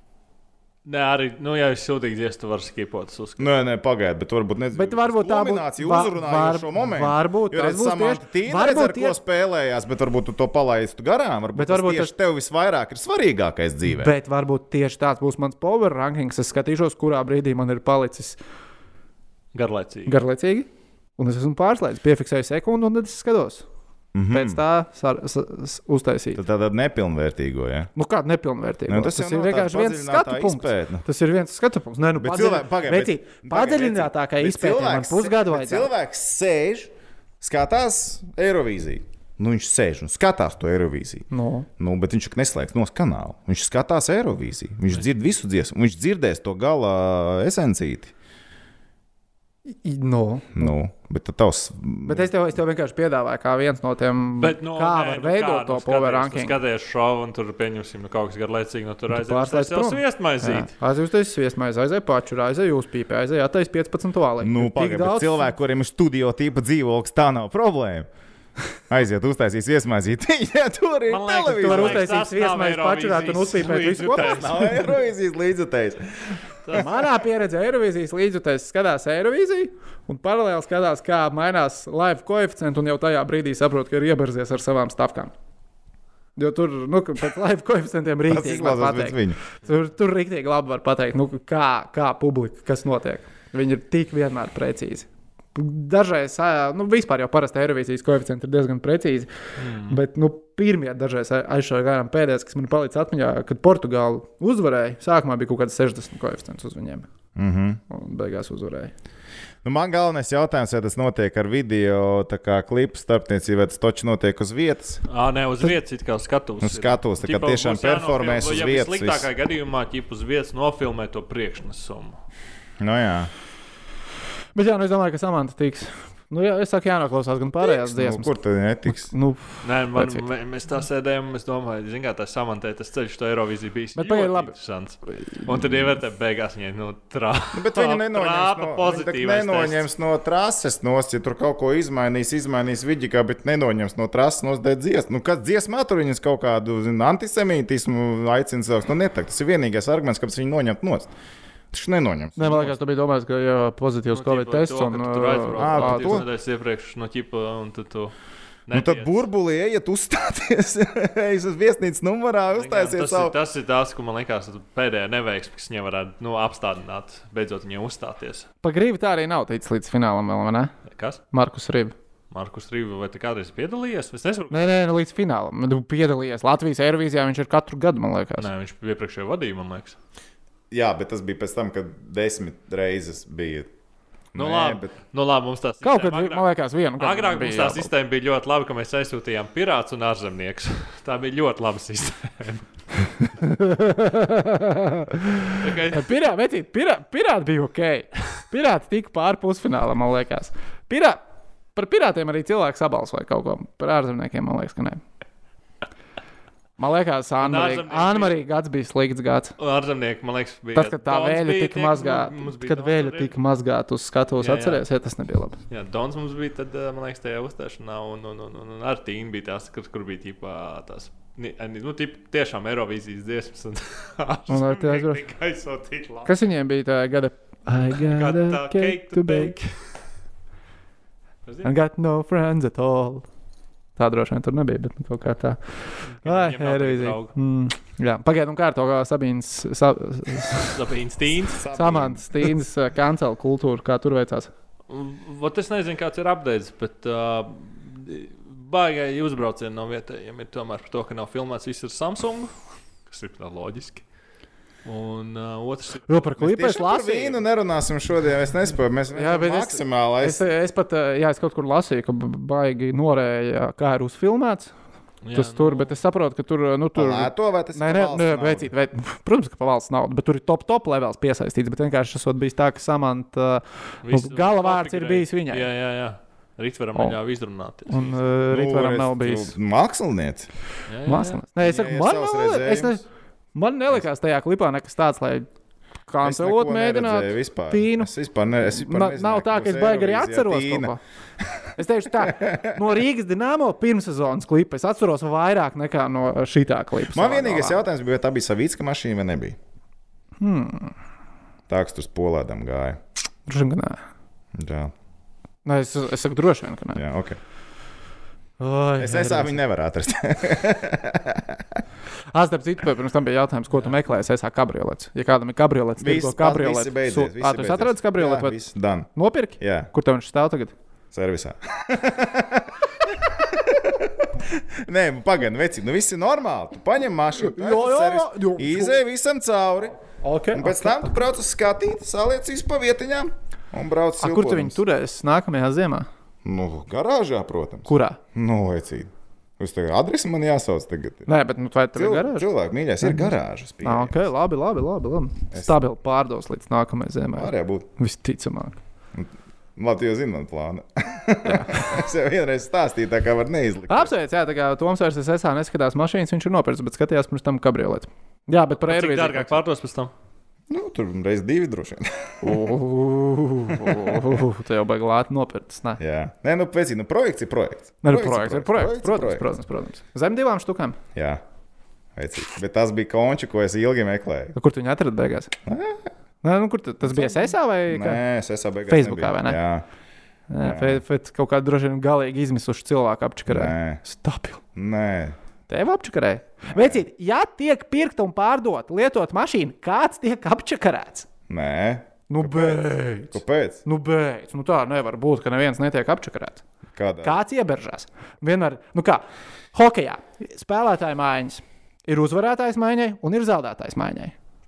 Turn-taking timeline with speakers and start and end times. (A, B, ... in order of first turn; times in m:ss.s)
0:00.8-0:03.5 A
0:03.4-0:14.1 B
0:04.7-0:09.2 C
0:11.6-0:12.1 C
0:13.8-0:18.4 C
0:19.5-0:20.2 A
0:20.1-0:23.6 C
0:24.1-0:24.6 B
0:24.3-0:26.4 C
0:26.4-0:27.9 B
0:28.0-0:35.9 C
0:28.9-0:31.0 B
0:32.2-0:41.3 B
0:41.3-0:41.7 C
0:41.8-0:48.1 B
0:49.7-0:50.7 C
0:50.6-0:52.3 B
0:52.0-0:56.6 C
0:54.4-1:00.7 A
0:59.1-1:05.5 C
1:04.4-1:08.1 B
1:08.9-1:12.1 B
1:11.1-1:14.7 A
1:11.5-1:14.8 C
1:14.2-1:17.0 B
1:16.7-1:25.3 C
1:26.4-1:47.1 C
1:28.3-1:29.4 B
1:39.6-1:40.0 A
1:47.4-1:47.8 B
1:47.9-1:48.9 C
1:49.6-1:55.0 B
1:55.1-2:02.2 A
1:56.6-1:59.3 B
2:02.8-2:03.3 B
2:04.6-2:08.3 C
2:07.6-2:09.1 B
2:08.9-2:10.3 C
2:09.6-2:19.9 A
2:14.0-2:14.5 C
2:17.5-2:31.1 B
2:31.7-2:32.7 B
2:32.4-2:36.2 C
2:34.1-2:38.1 A
2:35.6-2:36.3 B
2:38.7-2:39.2 A
2:38.7-2:43.4 B
2:42.5-2:48.5 A
2:48.6-2:50.7 C
2:50.9-2:51.2 A
2:51.3-2:52.0 C
2:52.3-2:54.7 A
2:54.5-2:58.5 C
2:58.4-3:00.0 A
3:00.7-3:03.7 B
3:04.3-3:04.9 B
3:04.4-3:12.7 A
3:05.8-3:07.9 C
3:13.4-3:21.2 C
3:15.6-3:16.1 A
3:21.8-3:25.0 C
3:26.8-3:29.6 C
3:27.4-3:28.4 A
3:29.6-3:33.3 A
3:30.8-3:35.6 C
3:34.4-3:34.8 A
3:35.7-3:46.3 A
3:44.5-3:45.2 C
3:46.3-3:49.6 C
3:47.9-3:49.7 A
3:51.6-3:53.2 C
3:54.0-4:00.8 C
3:56.1-3:57.3 A
4:00.6-4:01.6 A
4:01.6-4:02.5 B
4:01.7-4:04.5 C
4:04.9-4:12.5 A
4:13.1-4:14.0 A
4:14.8-4:16.3 A
4:16.1-4:17.4 C
4:16.4-4:20.4 B
4:19.1-4:24.7 C
4:25.2-4:25.9 A
4:25.3-4:35.7 C
4:27.0-4:28.7 B
4:34.0-4:38.2 A
4:37.9-4:39.5 C
4:38.5-4:40.5 B
4:40.9-4:41.4 A
4:41.1-4:45.5 C
4:41.6-4:43.0 B
4:46.1-4:48.1 C
4:46.2-4:51.4 B
4:48.6-4:51.0 C
4:51.8-4:57.8 C
4:52.2-4:52.8 B
4:57.1-4:59.6 B
5:00.4-5:00.9 C
5:01.7-5:03.0 B
5:03.5-5:04.0 C
5:04.6-5:04.9 B
5:05.6-5:07.0 C
5:07.0-5:07.4 B
5:08.6-5:09.6 C
5:09.0-5:11.8 B
5:12.3-5:18.5 C
5:16.0-5:19.1 B
5:19.2-5:20.8 C
5:19.6-5:19.9 B
5:21.1-5:30.0 B
5:27.4-5:29.0 C
5:30.2-5:31.2 C
5:30.5-5:34.8 B
5:34.2-5:36.1 C
5:36.4-5:41.3 B
5:37.9-5:38.2 C
5:41.3-5:42.5 C
5:41.9-5:44.3 B
5:43.0-5:43.3 C
5:43.8-5:48.8 C
5:45.5-5:45.8 B
5:47.3-5:47.9 B
5:49.2-5:54.1 B
5:51.4-5:52.0 C
5:53.9-5:59.6 C
5:58.9-6:00.1 A
6:00.7-6:02.6 B
6:02.4-6:06.0 C
6:03.7-6:04.4 B
6:06.0-6:09.5 B
6:08.0-6:11.0 C
6:11.2-6:11.4 B
6:12.2-6:14.6 B
6:14.6-6:15.5 C
6:15.7-6:16.1 B
6:16.4-6:18.2 C
6:17.0-6:19.8 B
6:18.9-6:19.6 C
6:20.5-6:24.6 C
6:20.6-6:21.0 B
6:23.5-6:24.0 B
6:24.8-6:25.4 B
6:25.7-6:31.3 C
6:26.7-6:27.0 B
6:31.5-6:33.8 B
6:32.3-6:36.6 C
6:36.9-6:37.4 B
6:37.2-6:44.3 C